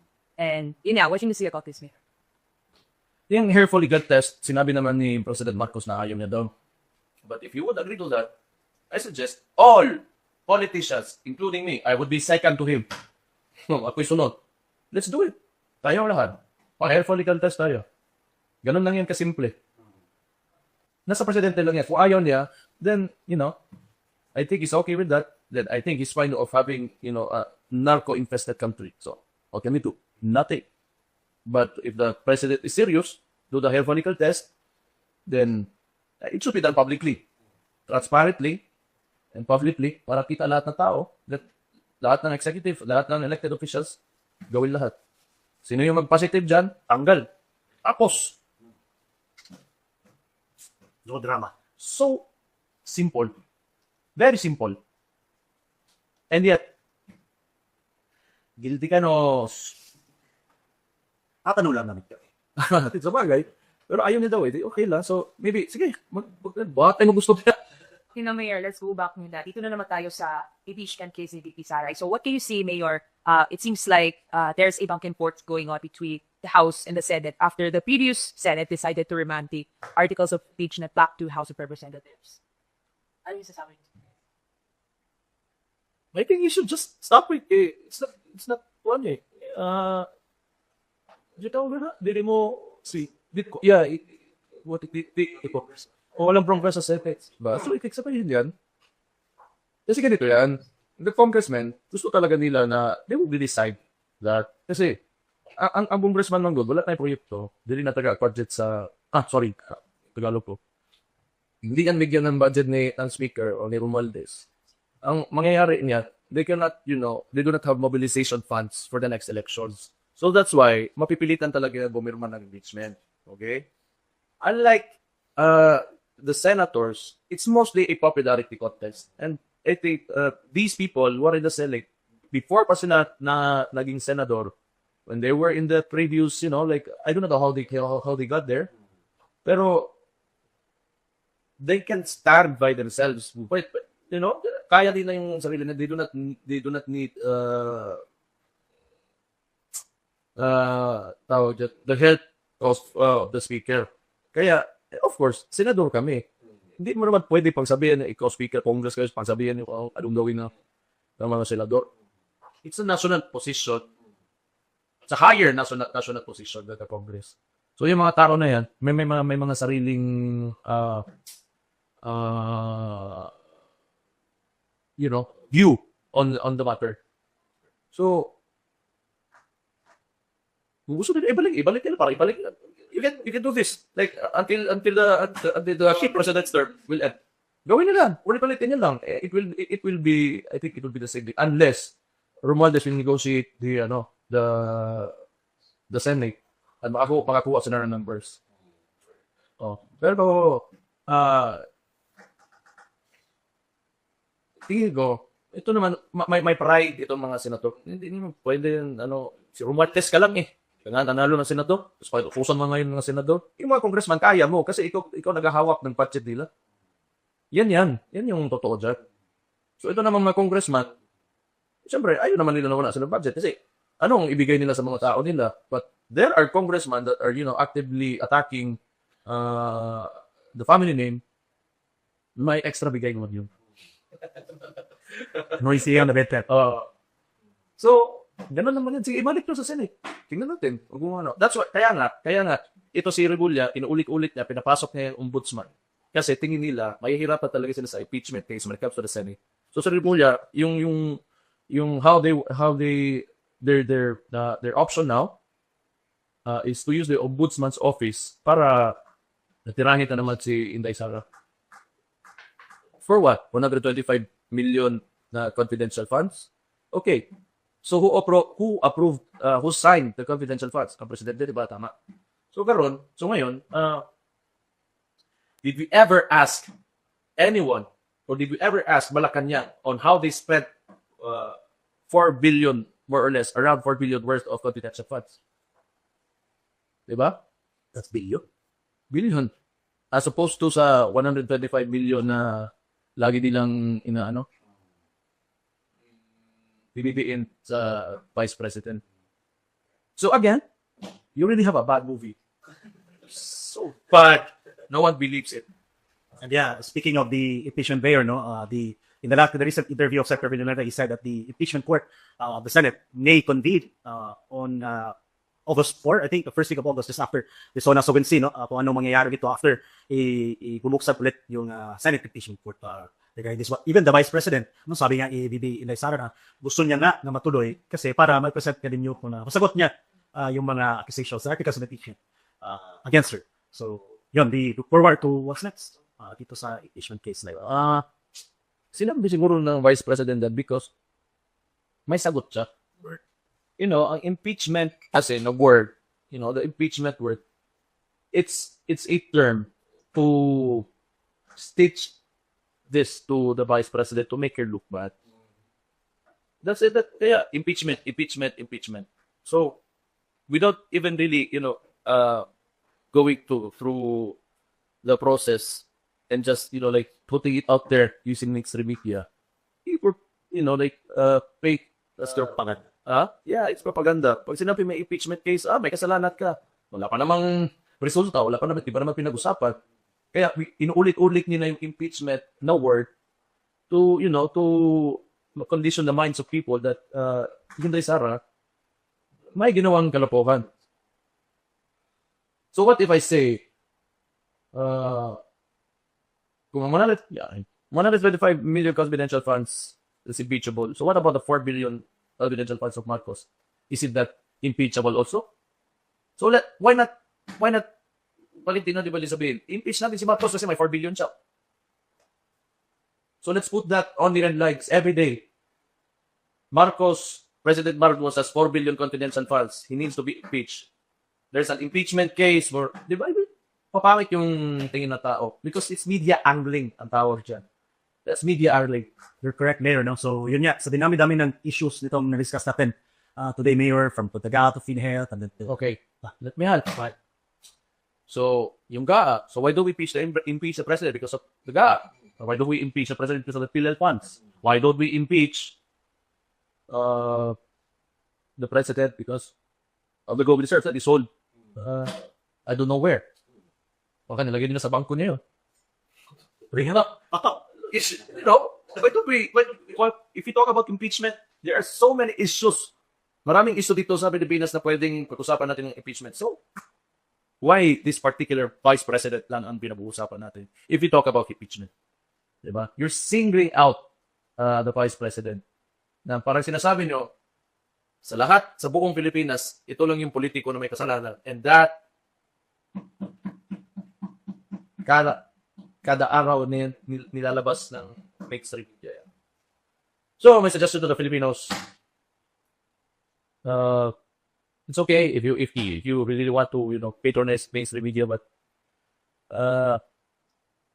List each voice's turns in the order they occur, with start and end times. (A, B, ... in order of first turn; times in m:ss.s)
0:00.4-0:01.9 A
0:03.3-0:06.5 B
0:07.2-0:08.3 B
0:08.9-0:12.9 B
0:13.7-0:14.4 B
0:14.9-0:17.8 B
0:18.6-0:19.6 B
0:21.0-0:23.6 B
0:24.3-0:30.6 B
0:31.4-0:34.5 B
0:35.3-0:35.7 B
0:36.2-0:37.2 B
0:37.9-0:38.6 B
0:39.3-0:41.4 B
0:42.0-0:44.0 B
0:44.5-0:44.9 B
0:45.6-0:47.3 B
0:47.8-0:48.4 B
0:51.0-0:51.5 C
0:51.8-0:52.2 B
0:52.8-0:53.3 B
0:54.2-0:54.8 B
0:56.3-0:56.6 B
0:58.6-0:59.8 B
1:01.4-1:02.2 C
1:02.6-1:07.6 B
1:08.1-1:22.4 A
1:23.2-1:23.8 A
1:26.1-1:30.1 B
1:31.4-1:34.1 B
1:34.6-1:38.5 B
1:39.9-1:45.0 B
1:45.6-1:50.6 B
1:51.6-1:54.4 B
1:55.0-2:03.6 B
2:04.4-2:14.5 B
2:15.1-2:18.7 B
2:19.4-2:19.9 B
2:21.6-2:28.0 B
2:30.4-2:36.2 B
2:36.8-2:40.5 B
2:41.2-2:41.9 B
2:42.6-2:43.8 B
2:45.1-2:51.0 B
2:52.0-2:53.3 B
2:55.0-2:57.0 B
2:57.9-2:58.3 B
3:00.9-3:15.1 B
3:15.9-3:18.4 B
3:19.6-3:21.6 B
3:24.6-3:36.5 B
3:37.5-3:39.0 B
3:39.8-3:40.9 B
3:41.8-3:51.2 B
3:52.4-3:53.5 B
3:55.6-3:56.5 C
3:56.5-3:56.9 B
3:57.8-4:15.4 B
4:16.4-4:19.0 B
4:19.6-4:21.2 B
4:23.0-4:27.2 B
4:27.8-4:31.9 B
4:32.5-4:34.0 B
4:35.6-4:36.7 B
4:37.4-4:41.6 B
4:42.1-4:45.3 B
4:47.1-4:47.4 B
4:47.9-4:48.4 C
4:49.1-4:49.5 B
4:50.1-4:54.4 B
4:56.9-4:59.0 B
5:00.2-5:00.6 B
5:01.3-5:02.4 B
5:03.3-5:05.6 B
5:06.4-5:15.1 C
5:15.6-5:37.7 C
5:37.6-5:38.0 B
5:38.9-5:40.9 B
5:42.1-5:43.2 B
5:43.8-5:47.4 B
5:48.3-5:50.9 B
5:51.6-5:52.1 B
5:52.9-5:55.1 B
5:56.6-5:59.8 B
6:00.5-6:02.5 B
6:03.1-6:04.4 B
6:05.0-6:09.3 B
6:09.8-6:19.8 B
6:12.4-6:12.8 C
6:20.3-6:23.1 B
6:23.9-6:28.4 B
6:29.5-6:30.7 B
6:32.7-6:33.6 B
6:34.7-6:35.4 B
6:36.7-6:45.5 B
6:46.4-6:47.8 B
6:48.6-6:51.3 B
6:53.4-6:55.4 B
6:56.7-7:00.9 B
7:01.5-7:07.6 B
7:08.2-7:09.1 B
7:09.4-7:15.7 C
7:15.7-7:17.1 B
7:18.3-7:25.7 B
7:26.9-7:27.6 B
7:28.6-7:29.5 B
7:30.3-7:33.2 B
7:34.3-7:35.4 B
7:36.7-7:37.6 C
7:37.9-7:42.9 B
7:43.4-7:46.6 B
7:47.6-7:51.9 B
7:52.6-7:54.0 B
7:54.6-7:55.6 B
7:56.2-7:57.3 B
7:58.2-8:02.0 B
8:05.0-8:05.4 B
8:06.0-8:09.2 B
8:10.4-8:11.8 B
8:13.6-8:14.1 B
8:14.9-8:18.4 B
8:19.5-8:20.0 B